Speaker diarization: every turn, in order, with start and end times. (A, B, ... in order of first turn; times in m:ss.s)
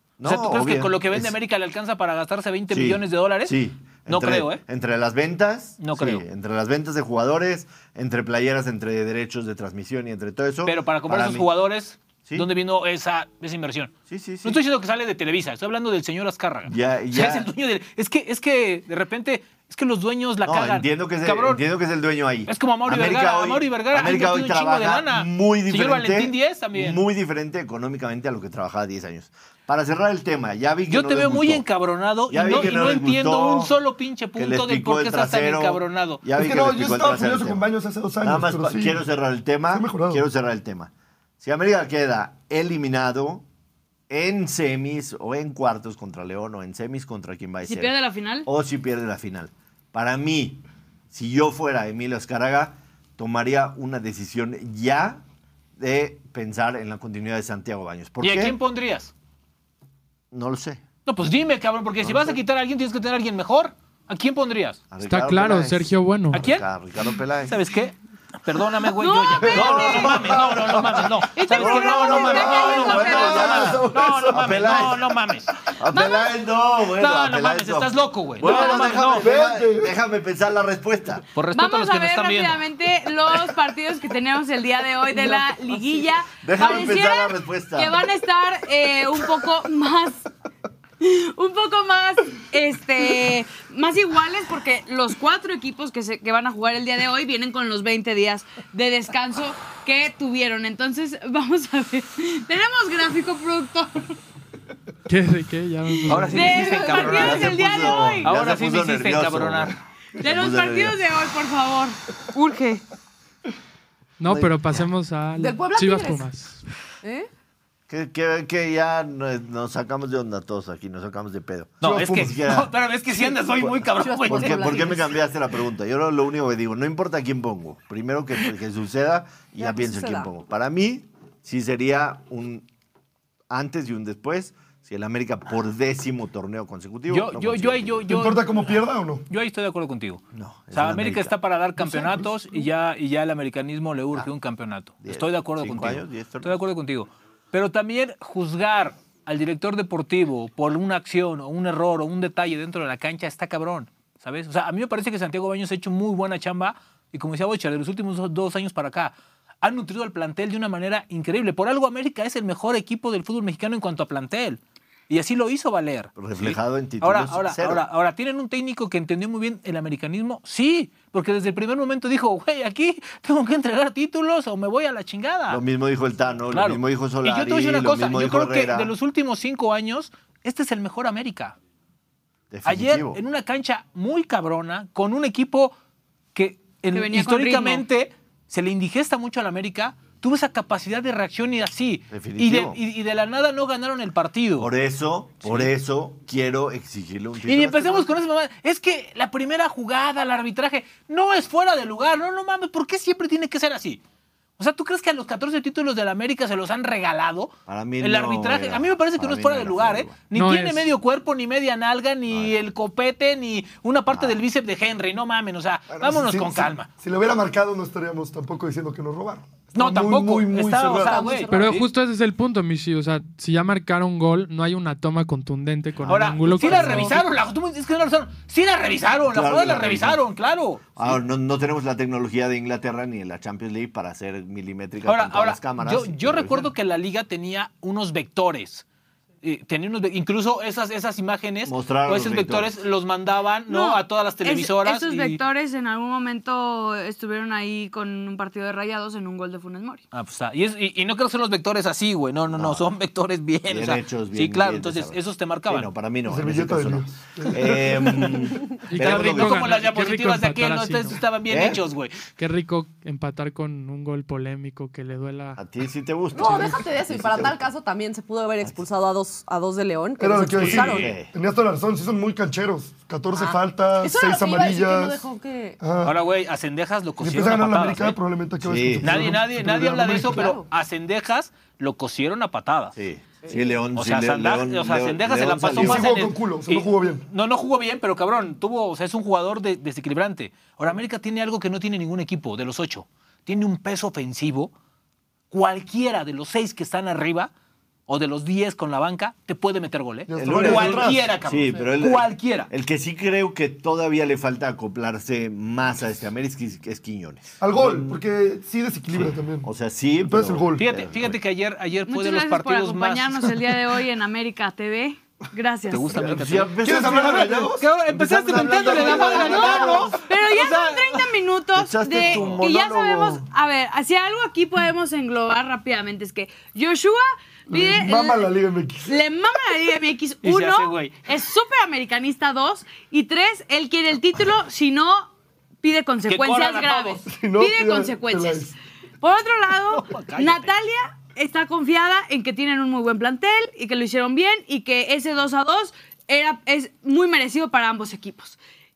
0:00.2-0:01.3 A
0:00.2-0:04.6 B
0:02.7-0:11.5 A
0:05.8-0:06.2 B
0:10.6-0:13.9 B
0:14.1-0:14.6 A
0:14.4-0:21.6 B
0:16.7-0:17.5 A
0:20.4-0:31.6 A
0:22.5-0:27.0 B
0:30.9-0:36.2 B
0:32.3-0:33.7 A
0:34.4-0:37.6 A
0:36.3-0:39.0 C
0:38.2-0:43.4 A
0:39.7-0:40.2 C
0:44.1-0:55.2 A
0:47.6-0:48.5 D
0:55.8-0:58.6 A
0:58.2-0:59.1 B
1:00.3-1:00.8 A
1:01.0-1:04.8 B
1:02.0-1:02.4 A
1:04.9-1:07.6 A
1:05.0-1:06.4 E
1:06.3-1:06.6 B
1:07.4-1:15.5 B
1:09.0-1:10.3 D
1:09.5-1:21.2 A
1:11.3-1:13.7 D
1:12.2-1:14.6 C
1:15.9-1:16.4 D
1:17.0-1:19.3 B
1:18.5-1:18.9 D
1:19.2-1:19.9 C
1:21.3-1:22.6 B
1:21.5-1:30.3 D
1:25.7-1:26.0 F
1:26.4-1:28.0 A
1:31.0-1:44.1 D
1:45.1-1:46.8 E
1:46.1-1:47.6 B
1:46.2-1:48.3 D
1:46.6-1:47.2 F
1:46.9-1:51.0 A
1:48.2-1:49.8 B
1:50.2-1:52.8 D
1:54.2-1:56.6 E
1:54.2-1:54.8 A
1:55.4-1:56.3 F
1:57.0-1:57.3 F
1:57.9-2:02.7 A
2:01.8-2:05.0 B
2:01.8-2:02.3 C
2:03.6-2:12.7 A
2:04.0-2:05.2 F
2:09.6-2:10.3 F
2:13.5-2:18.1 A
2:17.1-2:18.7 B
2:18.1-2:19.2 C
2:19.3-2:20.2 B
2:20.3-2:21.4 A
2:20.7-2:55.6 B
2:21.8-2:22.3 C
2:25.0-2:26.6 A
2:46.2-2:47.8 A
2:55.5-2:58.9 A
2:56.5-3:01.6 B
3:02.5-3:03.2 A
3:02.6-3:05.7 B
3:06.3-3:14.7 B
3:06.9-3:07.8 D
3:12.1-3:12.8 A
3:14.6-3:18.1 A
3:15.4-3:15.7 B
3:17.4-3:24.0 B
3:24.6-3:36.9 B
3:27.7-3:30.2 A
3:30.3-3:30.9 E
3:32.3-3:32.6 A
3:34.1-3:34.4 A
3:35.9-3:41.3 C
3:39.7-3:41.9 B
3:41.0-3:41.8 F
3:41.5-3:47.2 E
3:46.0-3:46.4 A
3:46.1-3:51.2 B
3:46.6-3:47.2 F
3:49.3-3:50.2 A
3:51.0-3:56.7 A
3:55.0-3:58.8 B
3:59.4-4:05.4 B
4:01.6-4:02.8 A
4:03.7-4:10.0 D
4:10.1-4:15.9 B
4:12.5-4:12.9 A
4:13.7-4:19.7 A
4:16.2-4:18.5 C
4:18.9-4:21.2 E
4:18.9-4:22.2 B
4:21.5-4:21.8 A
4:22.4-4:25.6 E
4:25.6-4:27.7 A
4:26.3-4:31.1 F
4:30.2-4:35.2 C
4:30.6-4:31.3 A
4:33.3-4:35.8 F
4:35.8-4:36.1 C
4:36.0-4:38.2 B
4:37.2-4:40.5 C
4:38.6-4:39.3 A
4:39.0-4:43.0 B
4:40.3-4:40.6 F
4:42.9-4:46.1 A
4:43.9-4:54.7 B
4:45.7-4:47.2 C
4:55.5-4:57.5 B
4:58.1-5:02.7 B
5:00.3-5:01.3 C
5:00.4-5:08.2 A
5:07.6-5:09.7 C
5:09.1-5:11.4 A
5:10.2-5:10.9 C
5:10.8-5:13.7 B
5:12.1-5:16.3 D
5:15.9-5:21.3 B
5:16.1-5:20.2 A
5:16.8-5:17.9 C
5:18.4-5:20.2 C
5:19.0-5:28.5 D
5:21.7-5:23.4 A
5:22.2-5:22.6 B
5:27.7-5:29.2 C
5:29.0-5:35.3 D
5:30.4-5:31.2 B
5:35.8-5:38.6 D
5:36.3-5:37.2 B
5:37.2-5:38.8 C
5:39.2-5:48.6 D
5:39.9-5:40.7 B